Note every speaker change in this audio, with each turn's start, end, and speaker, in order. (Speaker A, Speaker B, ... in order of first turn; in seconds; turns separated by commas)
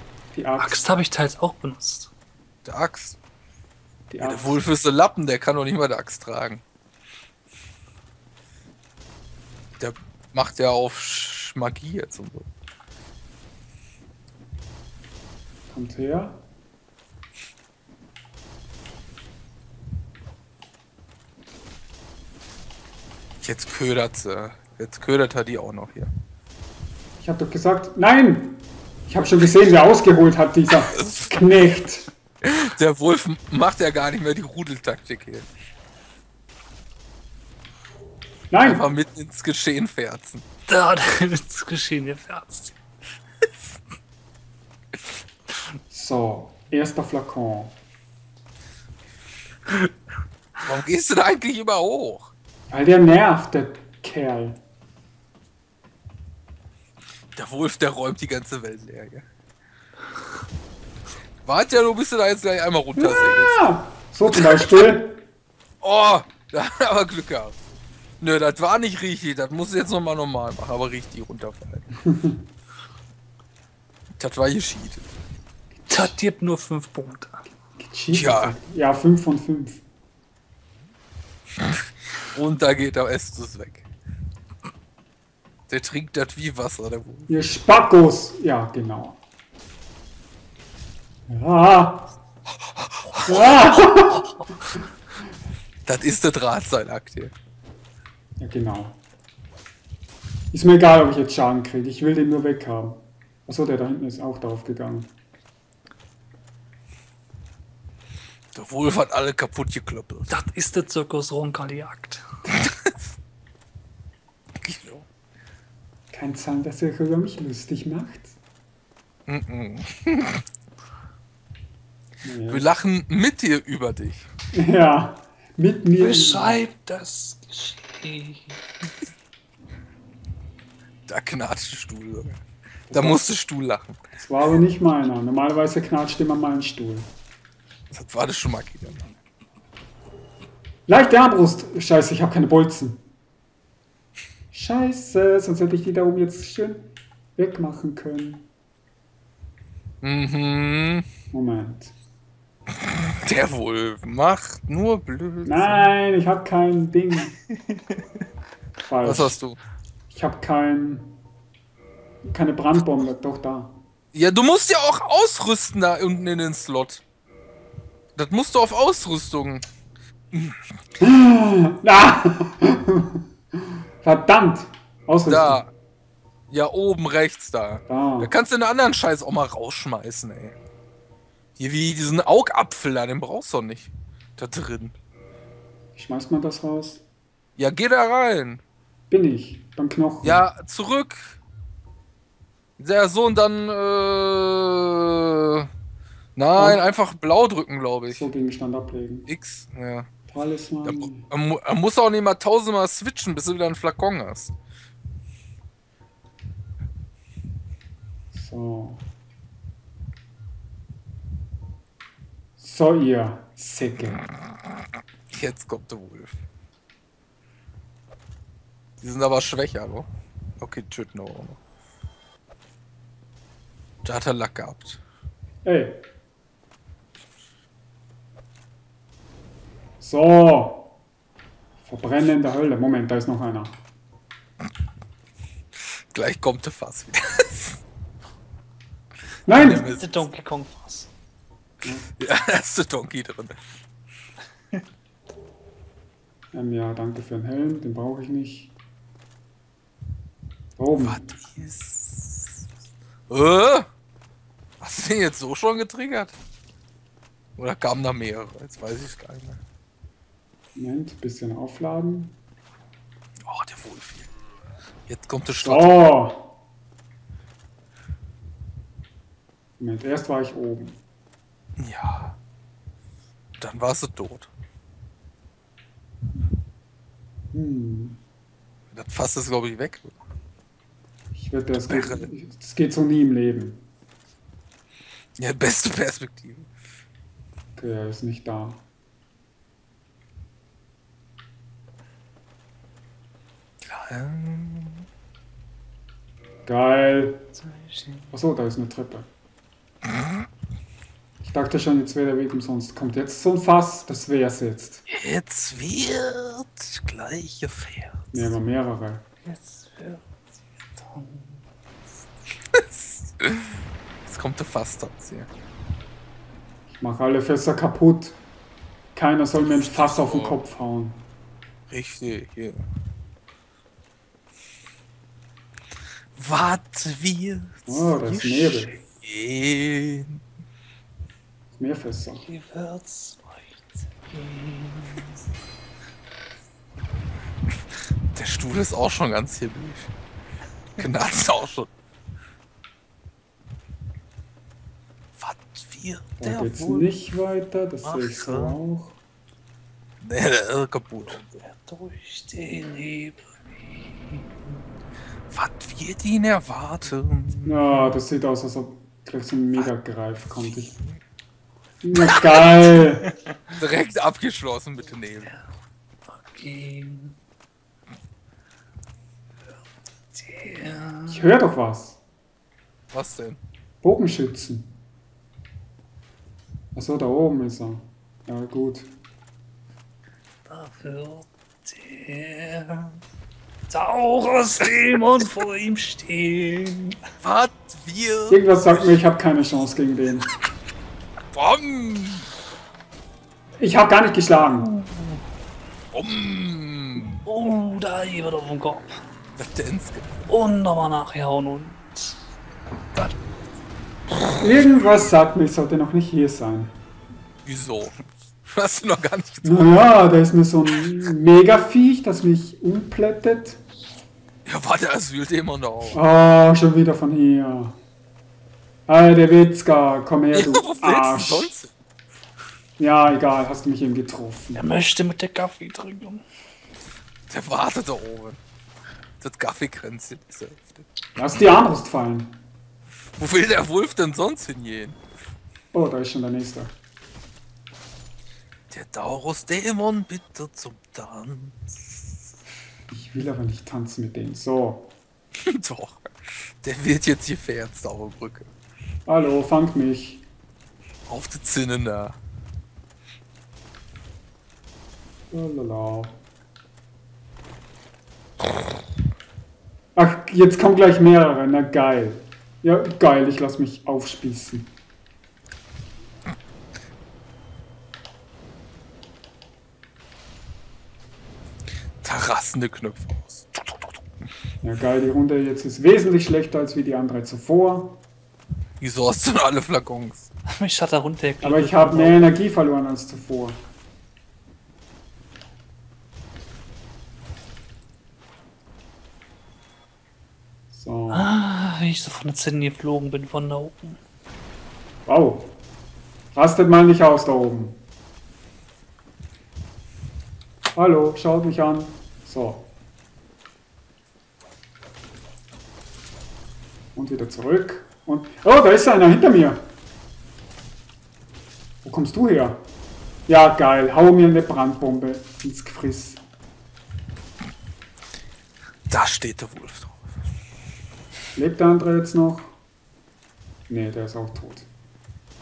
Speaker A: 0.3-0.8, Speaker B: 0.6-2.1, Speaker C: 2.6-3.2, Speaker A: 4.1-4.6, Speaker C: 4.2-6.6, Speaker C: 9.8-12.5, Speaker A: 15.7-16.4, Speaker C: 23.4-26.1, Speaker A: 27.2-32.1, Speaker C: 30.9-31.3, Speaker C: 32.4-35.5, Speaker A: 38.5-38.9, Speaker C: 38.6-40.4, Speaker B: 40.7-42.8, Speaker A: 45.9-47.8, Speaker C: 50.6-52.3, Speaker A: 52.7-54.6, Speaker C: 57.3-59.2, Speaker C: 61.4-63.6, Speaker A: 63.0-65.2, Speaker C: 64.3-64.8, Speaker C: 65.8-67.6, Speaker C: 68.2-71.9, Speaker A: 72.0-72.4, Speaker C: 74.2-75.1, Speaker B: 75.9-77.4, Speaker A: 77.8-79.8, Speaker C: 78.1-78.5, Speaker C: 82.3-83.8, Speaker C: 85.7-87.3, Speaker A: 87.3-89.2, Speaker A: 91.3-92.1, Speaker C: 92.7-93.8, Speaker A: 93.2-94.3, Speaker C: 95.8-97.3, Speaker A: 98.4-99.0, Speaker A: 100.5-105.1, Speaker C: 108.5-110.3, Speaker B: 110.3-112.2, Speaker C: 114.6-115.1, Speaker A: 116.1-118.3, Speaker C: 119.3-120.4, Speaker A: 122.2-122.7, Speaker C: 122.5-124.3, Speaker A: 124.5-126.6, Speaker B: 126.0-128.6, Speaker C: 131.1-134.0, Speaker A: 132.9-133.2, Speaker A: 134.2-137.1, Speaker C: 137.9-139.1, Speaker A: 140.9-143.0, Speaker A: 144.5-148.5, Speaker C: 150.0-151.1, Speaker A: 151.3-151.9, Speaker C: 152.7-155.9, Speaker A: 155.4-157.3, Speaker A: 158.8-159.4, Speaker C: 159.0-159.6, Speaker A: 160.1-161.1, Speaker A: 162.2-163.8, Speaker C: 164.1-167.0, Speaker C: 168.1-169.7, Speaker C: 170.3-170.6, Speaker A: 171.0-175.6, Speaker C: 175.3-175.7, Speaker C: 176.5-180.6, Speaker A: 177.9-178.3, Speaker C: 181.6-184.9, Speaker A: 185.9-187.0, Speaker C: 187.6-188.6, Speaker A: 189.1-190.4, Speaker C: 190.2-191.4, Speaker C: 192.8-195.7, Speaker C: 196.3-198.3, Speaker A: 196.5-196.8, Speaker A: 198.1-199.3, Speaker C: 199.3-200.1, Speaker A: 200.3-201.3, Speaker C: 200.8-204.5, Speaker A: 208.3-209.0, Speaker A: 212.6-214.3, Speaker C: 215.3-216.4, Speaker C: 219.0-220.1, Speaker C: 220.6-221.6, Speaker C: 224.0-225.0, Speaker A: 225.6-226.0, Speaker A: 230.0-230.9, Speaker A: 231.8-233.8, Speaker C: 235.9-237.8, Speaker A: 239.4-239.9, Speaker C: 239.5-240.2, Speaker B: 239.6-241.1, Speaker A: 241.8-242.1, Speaker C: 242.2-243.7, Speaker A: 246.5-248.7, Speaker A: 250.8-251.2, Speaker C: 251.0-252.7, Speaker C: 253.3-253.9, Speaker C: 254.8-256.4, Speaker C: 257.6-259.6, Speaker A: 260.8-262.3, Speaker C: 263.4-264.3, Speaker C: 265.1-266.1, Speaker A: 265.6-266.5, Speaker A: 269.8-271.0, Speaker C: 271.8-272.4, Speaker C: 273.6-274.5, Speaker A: 277.5-278.2, Speaker C: 278.9-280.1, Speaker A: 281.3-283.8, Speaker C: 281.9-282.3, Speaker C: 285.4-286.7, Speaker A: 287.8-288.8, Speaker C: 293.8-295.1, Speaker A: 296.6-297.4, Speaker B: 297.6-298.3, Speaker A: 298.3-299.3, Speaker A: 301.4-305.0, Speaker C: 305.1-308.3, Speaker A: 308.3-309.2, Speaker B: 309.4-310.2, Speaker B: 310.9-311.6, Speaker C: 312.7-315.5, Speaker A: 316.9-318.4, Speaker A: 319.1-321.2, Speaker C: 319.6-320.6, Speaker C: 321.9-322.9, Speaker C: 326.3-330.4, Speaker A: 327.9-329.0, Speaker A: 331.7-332.4, Speaker B: 332.4-335.4, Speaker C: 338.3-340.1, Speaker C: 341.0-341.9, Speaker C: 345.4-347.1, Speaker A: 346.4-349.2, Speaker C: 348.0-348.8, Speaker C: 350.2-351.4, Speaker B: 351.3-353.6, Speaker B: 354.3-354.8, Speaker C: 355.5-358.1, Speaker A: 357.6-361.0, Speaker A: 362.0-363.3, Speaker B: 363.0-363.3, Speaker C: 363.8-365.5, Speaker B: 366.3-367.4, Speaker B: 370.3-371.4, Speaker A: 371.3-372.2, Speaker C: 373.1-373.6, Speaker A: 374.0-374.9, Speaker A: 376.9-379.1, Speaker B: 380.6-383.2, Speaker B: 383.9-387.2, Speaker C: 387.4-388.6, Speaker A: 388.5-390.5, Speaker C: 391.5-392.5, Speaker A: 393.8-394.9, Speaker B: 395.0-395.4, Speaker C: 396.1-397.4, Speaker B: 397.4-399.1, Speaker C: 399.6-400.4, Speaker B: 400.5-402.4, Speaker A: 404.6-406.9, Speaker C: 407.6-410.1, Speaker A: 409.6-413.8, Speaker C: 414.6-416.2, Speaker A: 416.1-418.0, Speaker A: 419.1-421.7, Speaker C: 420.5-421.9, Speaker A: 423.0-424.8, Speaker B: 424.8-426.4, Speaker C: 427.5-428.6, Speaker C: 429.4-431.1, Speaker A: 431.4-432.6, Speaker C: 433.4-435.2, Speaker A: 435.9-436.9, Speaker C: 438.9-442.4, Speaker A: 443.1-445.1, Speaker C: 445.6-448.7, Speaker A: 449.3-450.4, Speaker C: 451.3-452.4, Speaker A: 455.5-456.4, Speaker A: 460.1-464.9, Speaker C: 472.2-474.2, Speaker A: 474.8-478.2, Speaker C: 479.0-480.5, Speaker B: 480.7-482.4, Speaker A: 481.6-483.8, Speaker A: 490.9-491.5, Speaker B: 491.3-494.2, Speaker A: 495.2-495.7, Speaker A: 496.5-498.0, Speaker A: 500.9-502.9, Speaker A: 507.1-509.8, Speaker A: 512.0-512.8, Speaker A: 513.5-516.4, Speaker C: 519.1-520.3, Speaker A: 521.5-522.8, Speaker A: 523.9-524.9